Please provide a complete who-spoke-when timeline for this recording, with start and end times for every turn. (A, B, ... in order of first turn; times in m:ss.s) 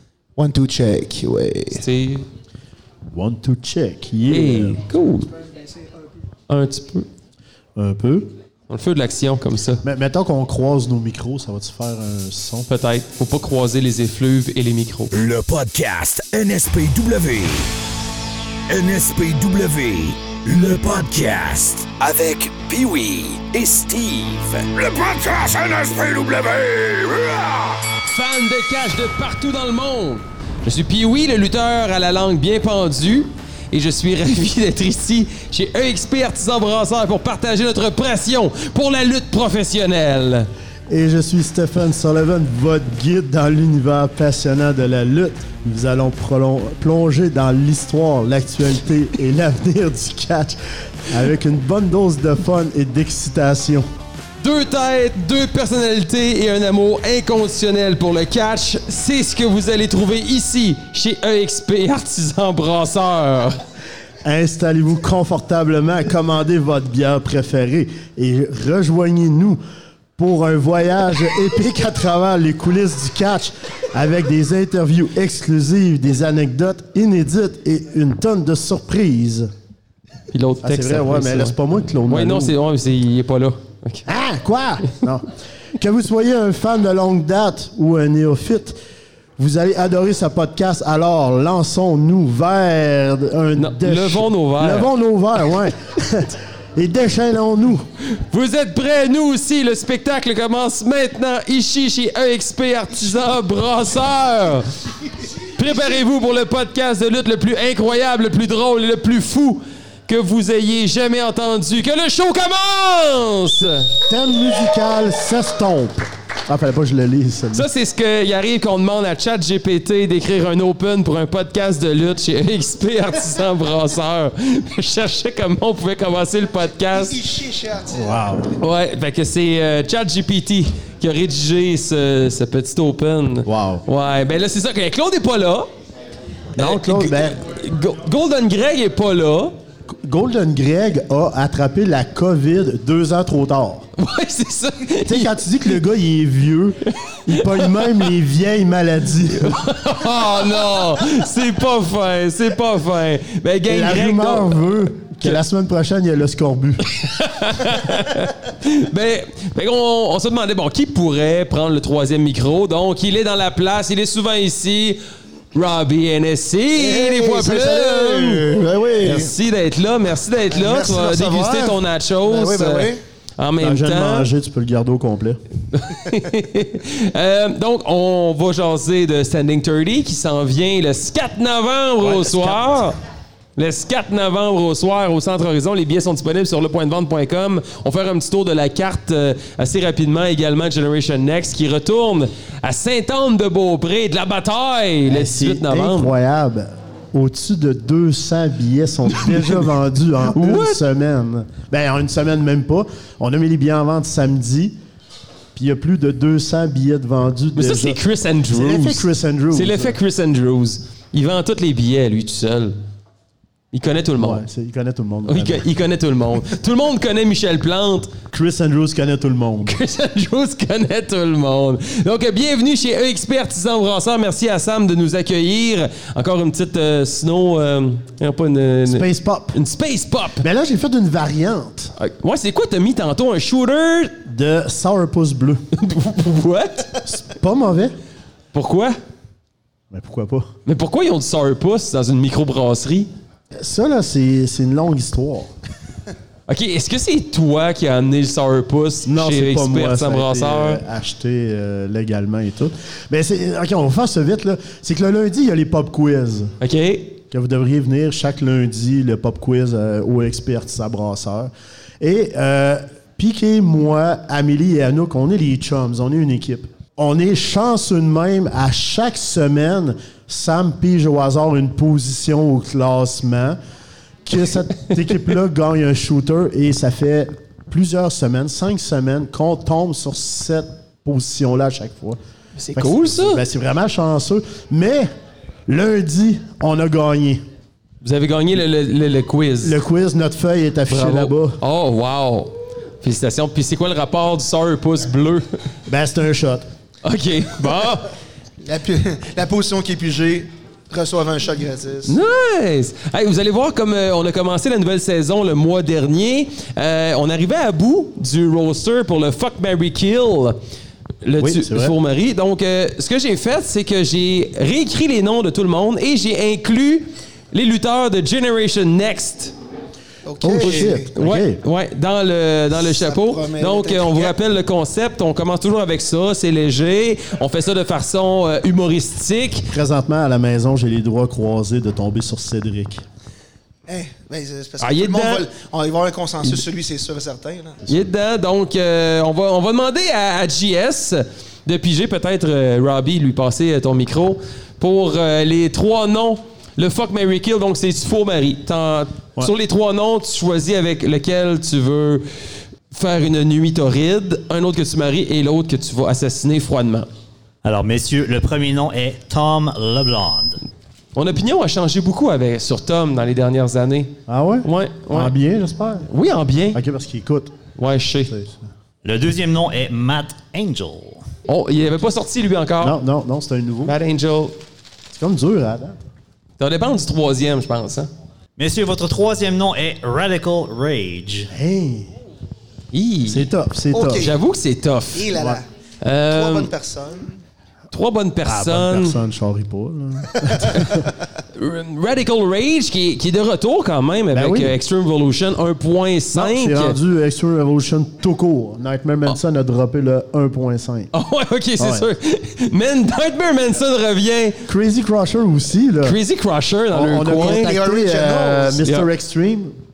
0:00.4-0:01.8 A
0:01.7-0:02.2 B
0:03.1-0:04.8 C
0:04.3-0:05.3 B
0:06.5-0:07.1 B
0:07.8-0:08.3 C
0:08.7-0:09.8 B
0:09.8-0:12.7 C
0:12.7-0:15.1 B
0:15.1-0:17.7 D
0:18.7-0:27.9 D
0:28.0-0:40.5 B
0:40.9-0:53.8 C
0:54.4-1:03.6 B
1:04.2-1:09.6 C
1:10.2-1:19.5 C
1:20.3-1:24.1 B
1:20.6-1:22.5 C
1:24.0-1:28.8 C
1:29.4-1:37.8 C
1:33.6-1:34.9 B
1:38.1-1:44.6 B
1:45.4-1:53.9 B
1:54.1-1:57.7 C
1:57.5-2:07.2 B
2:06.9-2:08.3 A
2:07.9-2:08.5 C
2:08.6-2:15.7 B
2:13.4-2:13.8 C
2:16.6-2:17.4 C
2:16.6-2:19.5 B
2:20.0-2:23.9 C
2:24.0-2:25.7 B
2:25.0-2:29.6 C
2:27.1-2:28.1 B
2:29.3-2:35.4 B
2:33.7-2:36.9 C
2:37.0-2:45.0 B
2:45.5-2:48.5 B
2:46.8-2:49.3 A
2:49.0-2:54.3 B
2:50.5-2:53.0 A
2:53.6-2:55.4 C
2:55.7-3:03.0 B
3:02.0-3:02.7 C
3:03.6-3:16.1 B
3:15.0-3:24.8 C
3:20.3-3:20.8 B
3:25.5-3:28.0 C
3:27.6-3:32.7 B
3:28.5-3:30.0 C
3:33.7-3:34.4 B
3:34.2-3:35.7 C
3:35.3-3:38.1 B
3:38.3-3:39.7 C
3:39.6-3:50.4 B
3:48.8-3:49.6 C
3:50.4-3:51.9 C
3:52.0-3:54.2 B
3:54.2-3:55.6 C
3:55.7-3:56.9 B
3:57.0-3:58.0 C
3:58.5-3:59.0 B
3:59.9-4:00.5 C
4:00.6-4:03.1 B
4:03.6-4:05.5 C
4:06.5-4:10.8 B
4:09.0-4:16.5 C
4:16.6-4:17.2 B
4:17.3-4:33.6 C
4:34.2-4:42.2 C
4:42.6-4:43.4 B
4:42.7-4:45.1 C
4:45.7-4:47.4 C
4:48.0-4:49.8 B
4:49.6-4:51.6 C
4:50.9-4:55.4 B
4:55.9-4:56.7 C
4:57.0-4:58.1 B
4:58.6-5:02.2 A
5:02.0-5:10.6 B
5:11.2-5:19.5 B
5:11.4-5:11.9 C
5:20.2-5:21.1 A
5:20.4-5:21.6 C
5:20.6-5:29.7 B
5:22.7-5:24.4 A
5:29.7-5:33.0 C
5:33.9-5:37.8 A
5:34.8-5:35.4 B
5:37.9-5:52.2 B
5:52.9-5:57.1 B
5:57.6-6:00.6 E
6:01.1-6:05.3 B
6:04.3-6:06.1 C
6:06.1-6:06.8 B
6:06.7-6:07.5 C
6:07.8-6:08.3 B
6:08.3-6:08.7 C
6:09.0-6:11.2 E
6:11.5-6:12.9 B
6:12.8-6:14.0 C
6:13.8-6:14.6 B
6:15.1-6:16.0 C
6:16.6-6:18.1 B
6:18.6-6:21.5 E
6:21.5-6:22.1 C
6:22.9-6:23.5 B
6:23.3-6:24.3 C
6:23.9-6:24.4 A
6:24.1-6:25.3 B
6:25.1-6:25.6 A
6:25.3-6:25.6 C
6:26.0-6:26.7 B
6:26.3-6:27.4 A
6:27.9-6:29.2 B
6:28.4-6:31.1 C
6:31.5-6:37.0 B
6:34.3-6:34.7 C
6:36.3-6:41.1 C
6:41.1-6:44.6 B
6:41.8-6:42.1 C
6:44.7-6:46.2 C
6:46.0-6:47.7 B
6:46.9-6:49.8 C
6:47.3-6:48.8 A
6:48.8-6:49.1 B